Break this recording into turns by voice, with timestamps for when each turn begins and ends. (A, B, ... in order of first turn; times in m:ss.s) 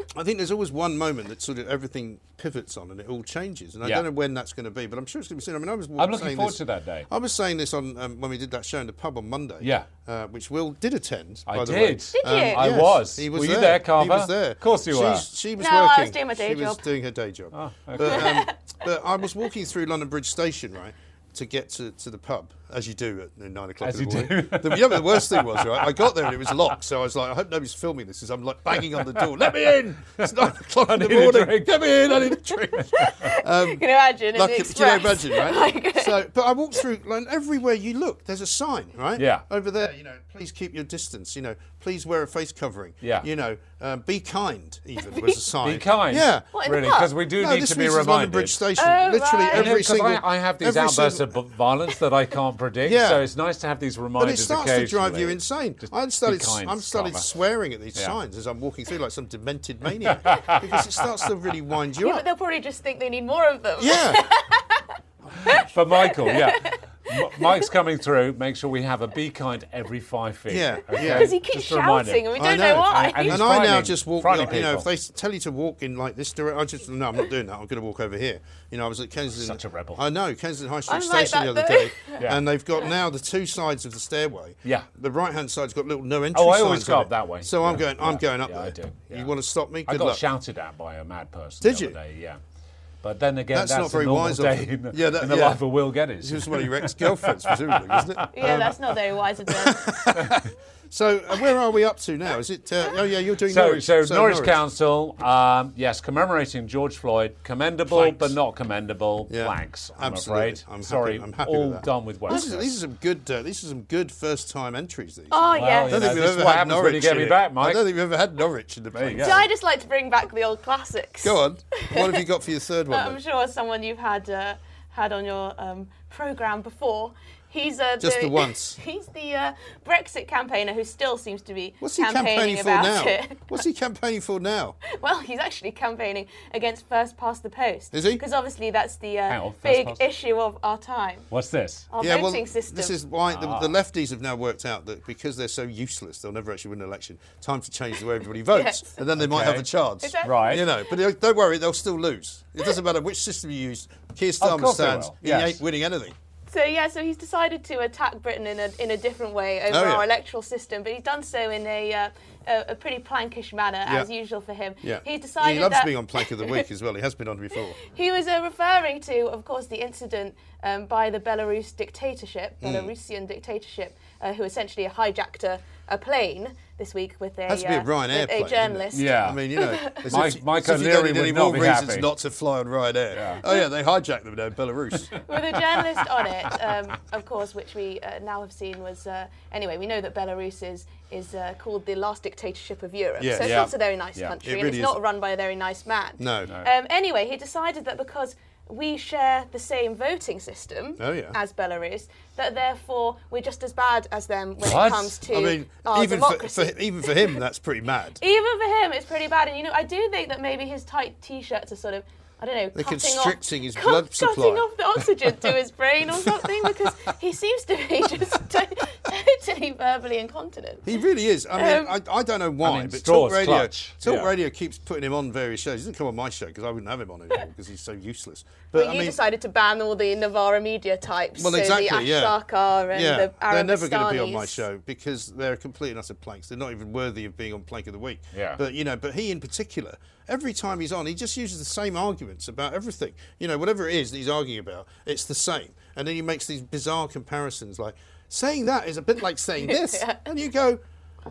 0:00.1-0:46.5 A
0:06.0-0:07.1 B
0:09.6-0:09.9 B
0:11.5-0:15.2 B
0:12.2-0:12.7 C
0:15.6-0:16.8 C
0:17.5-0:18.4 B
0:18.0-0:18.5 C
0:23.8-0:26.6 B
0:28.9-0:29.3 B
0:30.2-0:33.2 B
0:33.0-0:36.2 C
0:39.2-0:39.4 B
0:43.0-0:43.3 B
0:45.6-0:48.7 B
0:46.5-0:47.2 C
0:47.3-0:51.4 A
0:48.8-0:49.8 C
0:49.5-0:57.3 B
0:52.8-0:53.2 A
0:54.2-1:02.2 A
1:00.1-1:01.0 B
1:02.0-1:04.9 C
1:03.8-1:04.2 A
1:05.4-1:14.9 B
1:05.4-1:07.6 C
1:10.5-1:11.3 A
1:11.0-1:13.4 C
1:12.4-1:30.2 A
1:19.3-1:20.0 B
1:20.9-1:22.2 C
1:26.3-1:29.3 B
1:29.9-1:32.4 B
1:31.6-1:32.0 A
1:33.0-1:38.8 B
1:33.5-1:35.7 A
1:36.2-1:38.8 A
1:38.3-1:40.4 C
1:39.5-1:44.6 A
1:40.2-1:40.4 B
1:43.5-1:52.7 B
1:47.9-1:48.4 A
1:49.3-1:59.4 A
1:55.3-1:56.0 C
1:55.5-1:57.8 B
1:58.9-1:59.4 B
1:59.2-2:02.2 C
2:01.2-2:03.2 A
2:02.9-2:13.6 C
2:08.0-2:08.8 A
2:11.8-2:14.8 A
2:14.9-2:21.3 C
2:17.9-2:18.2 A
2:19.3-2:20.0 B
2:21.3-2:21.9 B
2:21.9-2:22.9 C
2:22.0-2:36.1 A
2:23.3-2:23.7 B
2:28.5-2:28.9 C
2:29.2-2:29.7 B
2:30.0-2:30.9 C
2:30.2-2:30.7 B
2:34.4-2:35.6 B
2:36.5-2:46.6 C
2:39.7-2:40.0 A
2:44.8-2:47.8 A
2:47.8-3:00.1 C
2:52.6-2:52.9 A
2:57.5-3:05.2 A
2:58.9-2:59.4 B
3:00.1-3:02.1 B
3:03.1-3:03.4 B
3:05.2-3:27.4 C
3:13.2-3:13.7 A
3:13.4-3:14.4 B
3:14.4-3:15.0 A
3:16.2-3:16.5 A
3:21.0-3:21.4 A
3:24.6-3:25.2 B
3:25.3-3:28.2 A
3:28.2-3:40.9 C
3:32.7-3:34.6 A
3:40.8-3:49.2 A
3:41.5-3:41.9 C
3:42.6-3:44.3 B
3:48.7-3:54.6 C
3:51.4-3:52.4 A
3:52.9-4:10.8 A
3:58.3-3:58.6 B
4:09.6-4:10.2 C